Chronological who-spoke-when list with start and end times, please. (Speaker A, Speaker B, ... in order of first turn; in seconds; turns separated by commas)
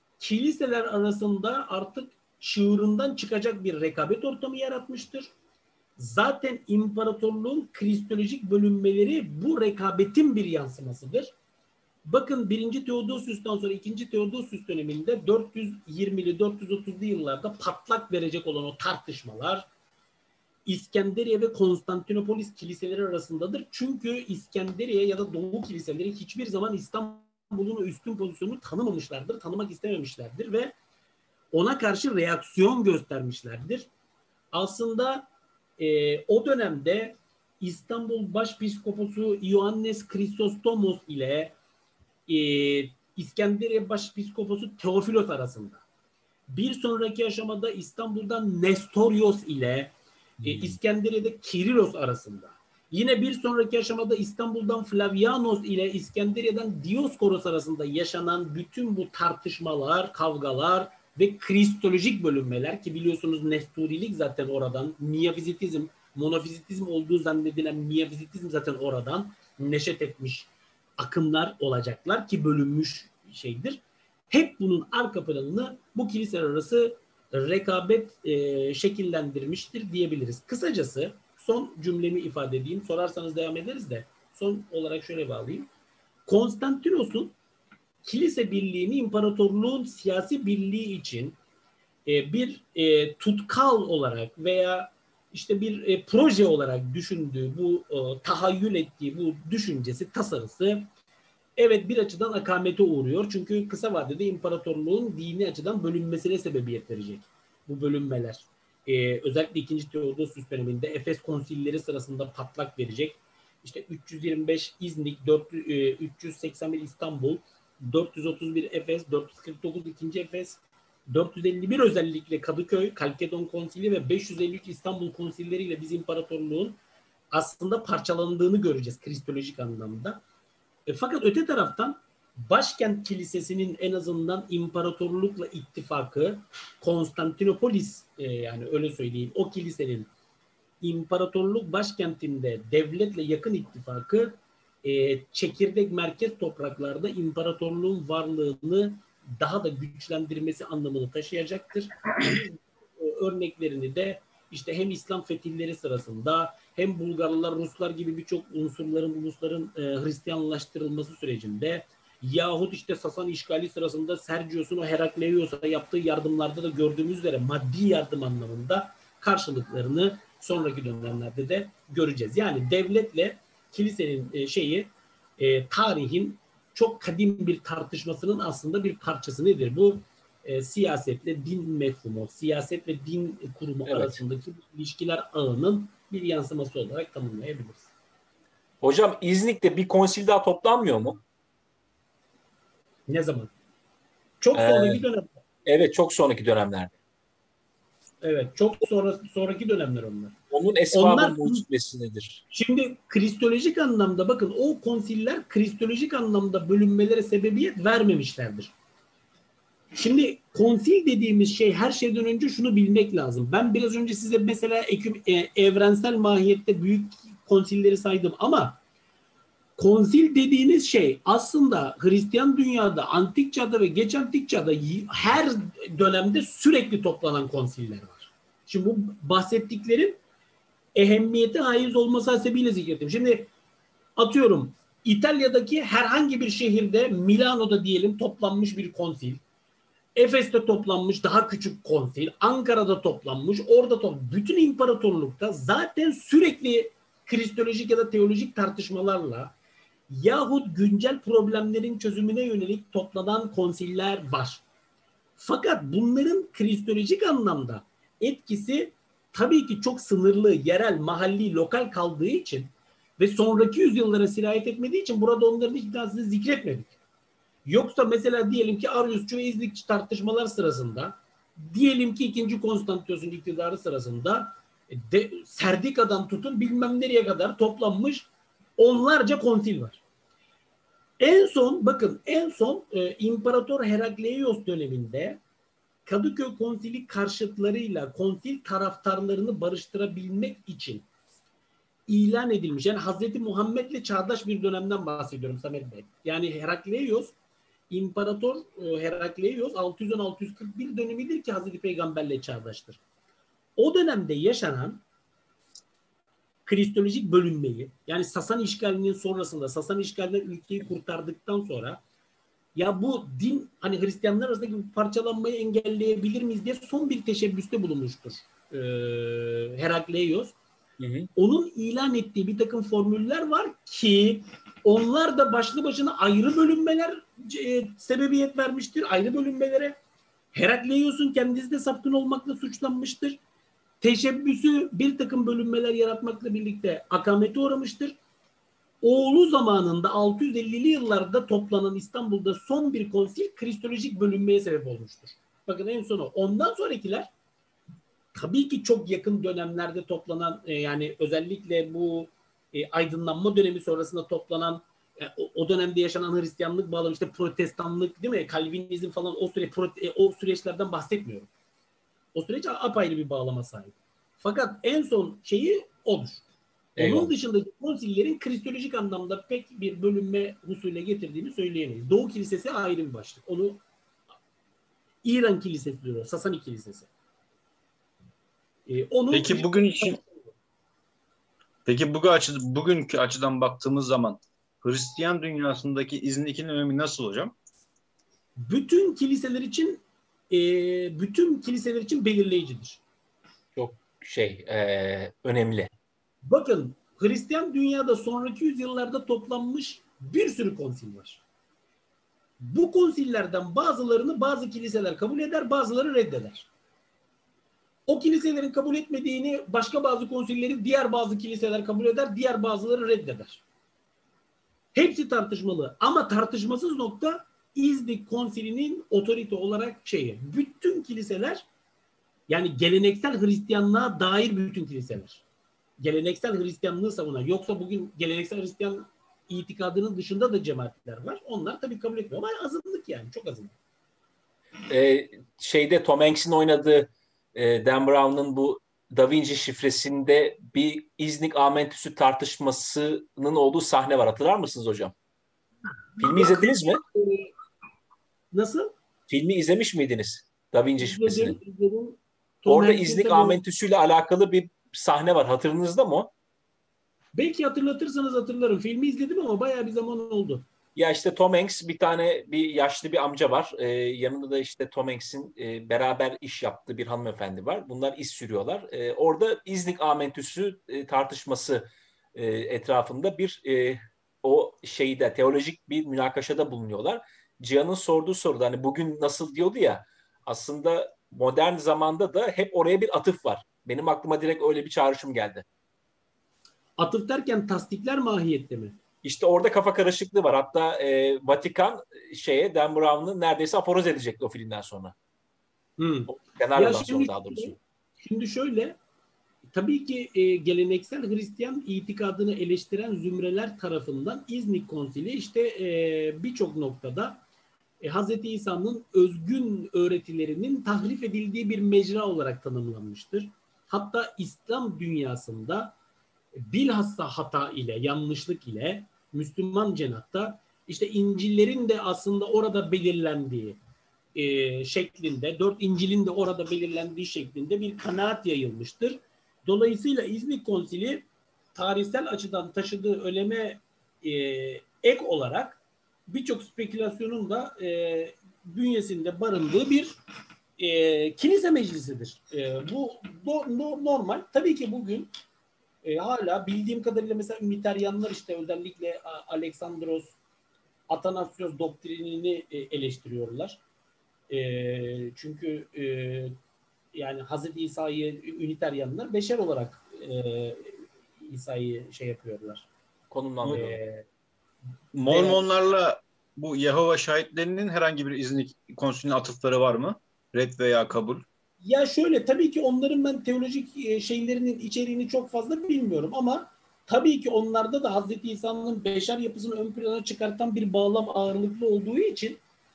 Speaker A: 0.2-5.3, Speaker A: 6.0-11.3, Speaker A: 12.1-19.6, Speaker A: 20.6-30.7, Speaker A: 31.5-33.9, Speaker A: 34.5-35.3, Speaker A: 35.8-41.5, Speaker A: 42.3-45.8, Speaker A: 46.5-49.9, Speaker B: 50.4-50.8, Speaker A: 50.4-85.7, Speaker A: 86.2-87.3, Speaker A: 88.0-91.3, Speaker A: 92.0-100.9, Speaker A: 101.6-126.8, Speaker A: 127.3-130.2, Speaker A: 130.9-140.1, Speaker A: 140.8-187.9, Speaker B: 183.9-184.2, Speaker B: 188.8-191.2, Speaker A: 193.1-193.5, Speaker A: 194.4-195.4, Speaker B: 194.5-195.0, Speaker B: 195.6-196.9, Speaker A: 198.2-200.3, Speaker B: 200.5-202.4, Speaker A: 200.9-201.6, Speaker A: 202.5-208.7, Speaker A: 209.9-218.8, Speaker A: 219.8-230.2, Speaker A: 230.9-233.5, Speaker A: 234.2-239.4, Speaker A: 240.1-249.5, Speaker A: 250.1-254.6, Speaker A: 255.4-266.9, Speaker A: 267.6-280.0, Speaker A: 281.2-285.4, Speaker A: 286.1-291.1, Speaker A: 292.1-297.3, Speaker A: 297.9-303.0, Speaker A: 303.8-305.0, Speaker A: 306.6-312.0, Speaker A: 312.7-320.5, Speaker B: 321.0-321.3, Speaker A: 321.4-330.0, Speaker A: 330.5-333.4, Speaker A: 334.0-338.2, Speaker A: 339.0-347.3, Speaker A: 348.3-361.5, Speaker A: 362.3-366.4, Speaker B: 367.0-367.3, Speaker A: 367.0-373.8, Speaker A: 375.2-377.1, Speaker A: 378.9-380.5, Speaker C: 379.3-380.2, Speaker C: 381.9-387.6, Speaker A: 388.6-393.0, Speaker B: 393.8-395.9, Speaker A: 396.4-401.4, Speaker A: 402.6-406.7, Speaker A: 408.1-413.6, Speaker A: 414.9-421.6, Speaker A: 422.5-425.4, Speaker A: 426.0-433.7, Speaker B: 434.9-445.1, Speaker A: 446.2-447.5, Speaker B: 446.2-447.0, Speaker A: 448.5-448.9, Speaker B: 449.3-451.6, Speaker A: 451.0-453.6, Speaker B: 452.6-456.3, Speaker A: 457.3-460.6, Speaker B: 460.9-485.6, Speaker A: 487.0-489.0, Speaker B: 489.2-495.1, Speaker A: 496.0-499.0, Speaker B: 496.3-497.8, Speaker A: 499.7-507.4, Speaker A: 508.0-515.9, Speaker A: 516.5-523.8, Speaker A: 524.3-540.2, Speaker A: 540.8-545.3, Speaker A: 546.0-550.3, Speaker A: 551.1-553.8, Speaker A: 554.5-556.5, Speaker A: 557.1-562.9, Speaker B: 563.3-564.0, Speaker A: 563.7-564.2, Speaker C: 565.1-571.4, Speaker A: 565.3-565.6, Speaker A: 571.8-582.6